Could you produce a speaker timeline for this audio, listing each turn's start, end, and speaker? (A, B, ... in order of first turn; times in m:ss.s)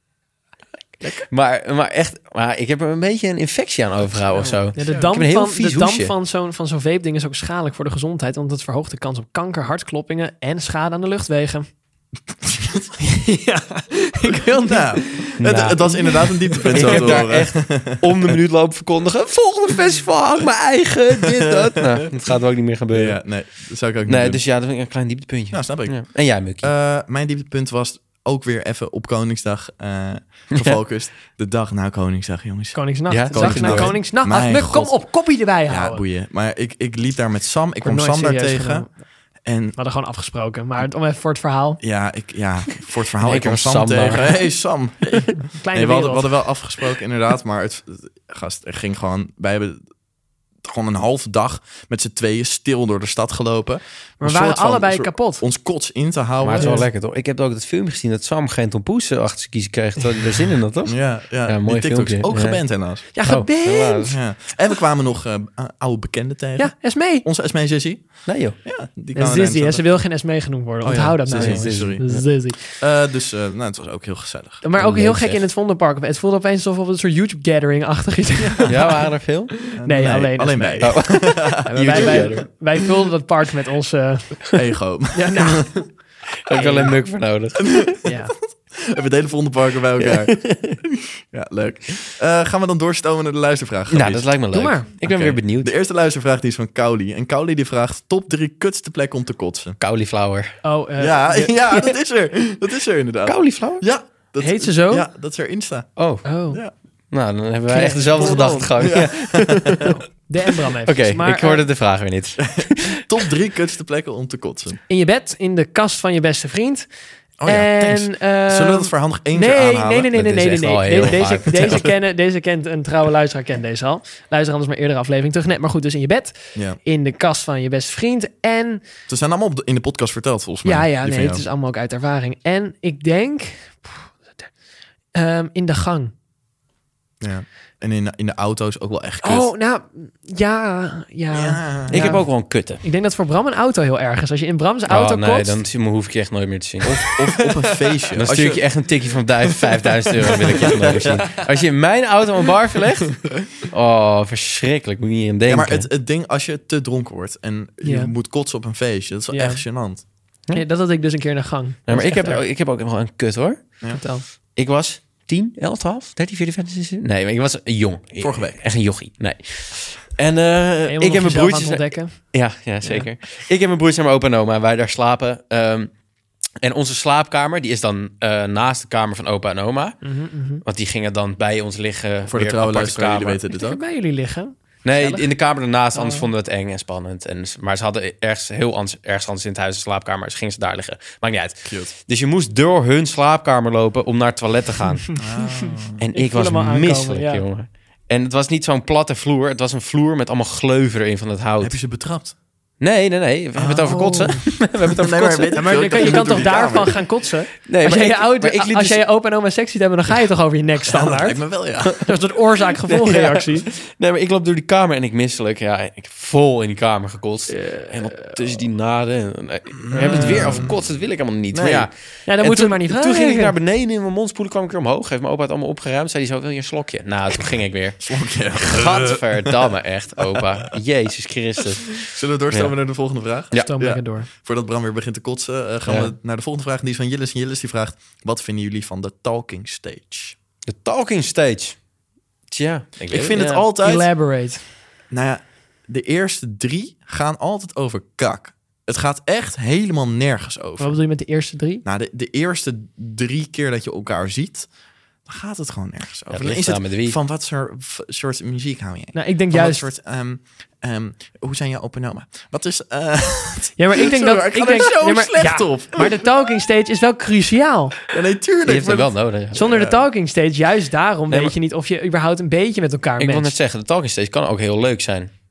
0:01.3-0:06.1 A
0:04.7-0:11.7 B
0:12.3-0:13.0 C
0:13.0-0:17.3 B
0:14.5-0:18.4 C
0:15.4-0:15.9 A
0:16.7-0:23.2 A
0:21.2-0:21.8 C
0:22.9-0:24.4 C
0:24.1-0:26.7 A
0:25.5-0:38.9 C
0:32.7-0:36.0 B
0:33.1-0:34.0 A
0:37.8-0:38.9 B
0:39.4-0:39.8 C
0:39.8-0:41.8 B
0:41.8-0:49.8 C
0:43.2-0:44.4 A
0:45.4-0:46.3 B
0:50.6-0:56.8 C
0:54.2-0:55.4 B
0:56.4-1:04.1 A
0:56.6-0:56.8 B
1:00.8-1:03.0 C
1:03.1-1:04.1 B
1:04.1-1:10.0 C
1:06.6-1:07.2 B
1:08.3-1:08.6 A
1:09.1-1:12.7 B
1:10.8-1:12.0 C
1:11.3-1:12.2 A
1:12.6-1:14.6 C
1:14.6-1:19.0 B
1:14.8-1:15.4 A
1:18.7-1:19.5 A
1:19.7-1:22.4 C
1:19.8-1:24.5 B
1:20.8-1:22.5 A
1:24.5-1:25.7 C
1:25.1-1:26.0 B
1:26.4-1:27.9 A
1:26.5-1:26.9 B
1:27.7-1:28.2 C
1:28.0-1:28.3 B
1:28.7-1:34.3 C
1:30.0-1:30.8 A
1:33.9-1:35.7 A
1:34.5-1:34.9 B
1:35.0-1:39.8 C
1:39.8-1:40.6 A
1:40.6-1:41.6 B
1:41.0-1:45.9 C
1:43.2-1:43.9 A
1:44.4-1:45.0 B
1:46.0-1:46.2 A
1:46.2-1:46.6 B
1:46.5-1:46.7 C
1:47.1-1:49.9 A
1:47.7-1:49.0 B
1:48.1-1:49.7 C
1:49.8-1:51.6 B
1:50.8-1:52.9 A
1:52.5-1:54.8 C
1:54.9-1:56.9 B
1:57.4-2:00.1 C
1:57.4-2:08.8 B
2:00.1-2:01.9 A
2:09.1-2:11.4 C
2:10.6-2:14.1 B
2:15.1-2:16.1 B
2:17.2-2:19.5 C
2:19.2-2:25.6 B
2:21.3-2:22.2 C
2:21.9-2:22.8 A
2:24.9-2:26.9 A
2:26.8-2:28.8 C
2:28.2-2:35.9 A
2:30.4-2:31.3 C
2:35.5-2:40.0 C
2:37.8-2:38.1 B
2:39.3-2:39.6 B
2:40.5-2:42.4 B
2:41.9-2:43.9 A
2:43.9-2:44.2 B
2:44.6-2:55.9 A
2:48.2-2:48.6 C
2:50.9-2:52.1 B
2:56.6-3:00.0 A
3:00.0-3:00.6 B
3:00.6-3:03.4 A
3:02.3-3:03.8 C
3:03.5-3:05.3 B
3:04.8-3:15.2 A
3:05.9-3:06.3 B
3:11.6-3:11.9 C
3:15.2-3:16.0 C
3:16.0-3:21.8 A
3:16.1-3:17.4 B
3:21.6-3:22.3 C
3:22.8-3:26.2 A
3:23.6-3:27.0 C
3:23.9-3:24.4 B
3:25.5-3:33.7 B
3:27.7-3:29.0 A
3:30.9-3:32.0 C
3:32.9-3:48.0 A
3:37.6-3:38.3 B
3:39.9-3:40.8 C
3:39.9-3:40.7 B
3:41.5-3:41.9 C
3:42.3-3:43.5 B
3:48.0-3:49.6 C
3:48.7-3:52.7 A
3:52.0-4:00.4 C
3:53.6-3:54.3 B
3:55.8-3:56.1 A
4:00.6-4:01.8 A
4:02.5-4:03.6 A
4:03.1-4:04.1 C
4:03.8-4:04.6 B
4:05.1-4:11.0 C
4:10.8-4:11.8 B
4:11.8-4:14.7 C
4:15.2-4:26.2 C
4:16.3-4:17.2 A
4:19.1-4:19.9 B
4:23.8-4:28.0 B
4:28.1-4:30.0 C
4:28.6-4:29.7 A
4:29.5-4:33.5 B
4:33.2-4:35.3 A